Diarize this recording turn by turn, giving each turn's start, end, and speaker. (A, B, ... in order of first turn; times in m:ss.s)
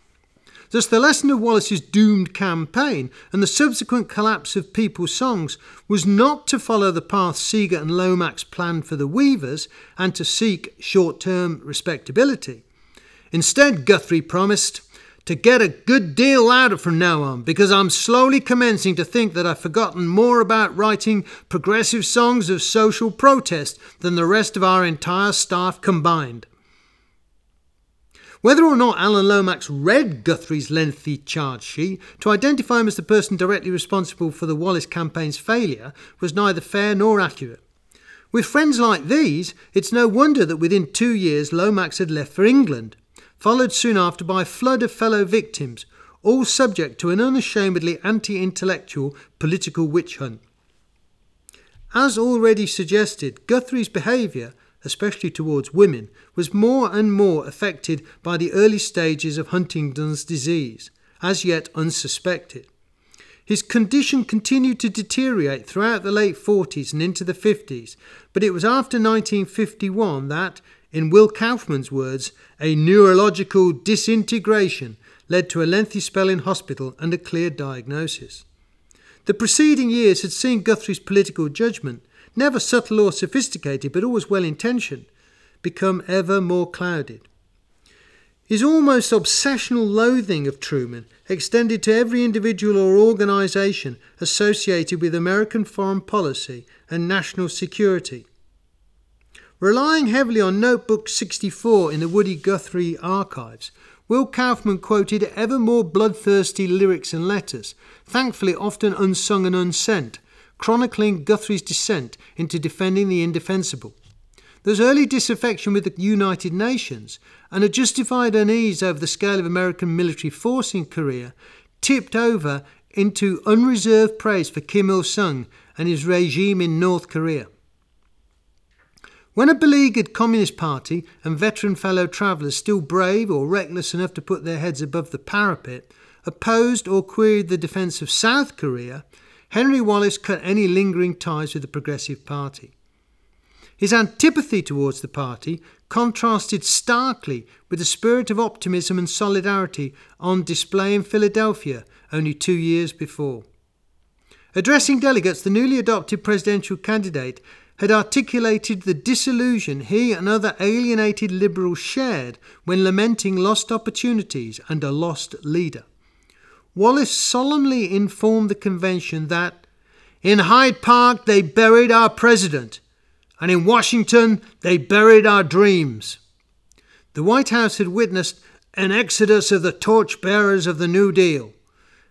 0:00.7-0:12.6 A
0:13.3-0:26.5 A
0:28.4-0:37.6 A
0:38.3-0:50.4 A
0:51.9-1:02.7 A
1:03.5-1:18.4 A
1:19.2-1:25.1 A
1:25.6-1:27.3 A
1:28.5-1:38.3 A
1:39.6-1:54.0 A
1:54.6-2:07.5 A
2:09.4-2:22.7 A
2:23.8-2:33.5 A
2:34.6-2:45.8 A
2:46.8-2:49.6 A
2:50.2-2:52.8 A
2:53.4-2:56.2 A
2:57.1-3:01.5 A